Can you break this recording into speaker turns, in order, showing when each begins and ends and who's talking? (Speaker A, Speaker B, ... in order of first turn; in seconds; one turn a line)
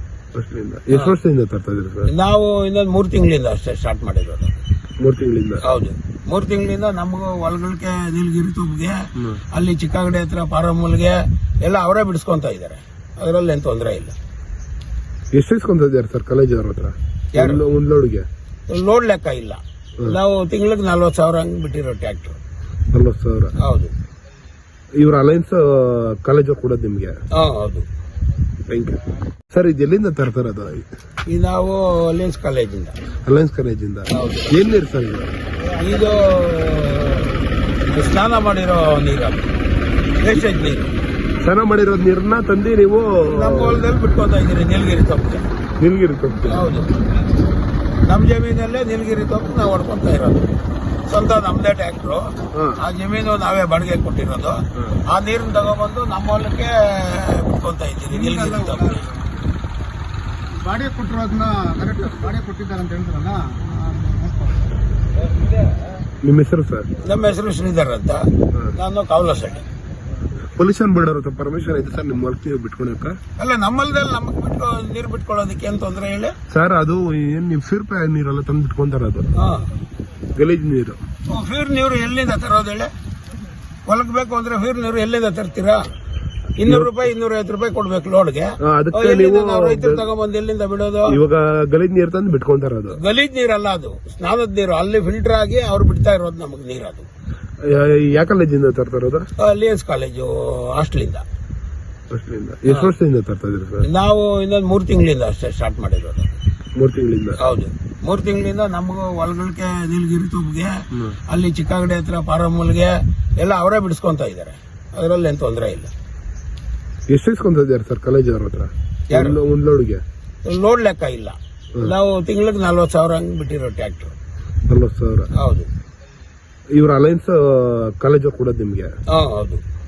Speaker A: 0.3-2.1
Speaker B: 2.1-4.5
Speaker A: 5.0-5.6
Speaker B: 5.6-14.2
Speaker A: 15.3-18.2
Speaker B: 17.3-17.6
Speaker B: 18.7-22.4
Speaker A: 22.9-23.5
Speaker B: 23.6-23.9
Speaker A: 25.0-27.1
Speaker B: 27.3-27.9
Speaker A: 28.7-29.0
Speaker A: 29.5-30.8
Speaker B: 31.2-32.9
Speaker A: 33.2-35.3
Speaker B: 34.1-34.5
Speaker B: 35.7-39.5
Speaker B: 40.2-40.9
Speaker A: 41.4-43.8
Speaker B: 43.2-45.5
Speaker A: 45.8-46.7
Speaker B: 46.5-46.9
Speaker B: 48.0-50.5
Speaker B: 51.1-59.1
Speaker C: 60.6-63.3
Speaker B: 63.3-64.2
Speaker A: 66.2-66.9
Speaker B: 67.0-69.7
Speaker A: 70.5-73.2
Speaker B: 73.4-76.3
Speaker A: 76.5-79.3
Speaker B: 79.3-79.7
Speaker A: 80.3-81.0
Speaker B: 81.3-82.9
Speaker B: 83.8-85.9
Speaker B: 86.6-91.2
Speaker A: 86.6-87.0
Speaker A: 88.6-90.0
Speaker A: 91.1-93.0
Speaker B: 92.9-97.1
Speaker A: 97.6-99.3
Speaker B: 99.4-101.2
Speaker A: 102.1-103.8
Speaker B: 103.8-106.3
Speaker A: 106.8-107.4
Speaker B: 107.4-115.9
Speaker A: 117.1-120.0
Speaker B: 119.1-119.4
Speaker B: 120.4-124.1
Speaker A: 124.7-125.3
Speaker B: 125.3-125.7
Speaker A: 126.7-128.9
Speaker B: 129.1-129.6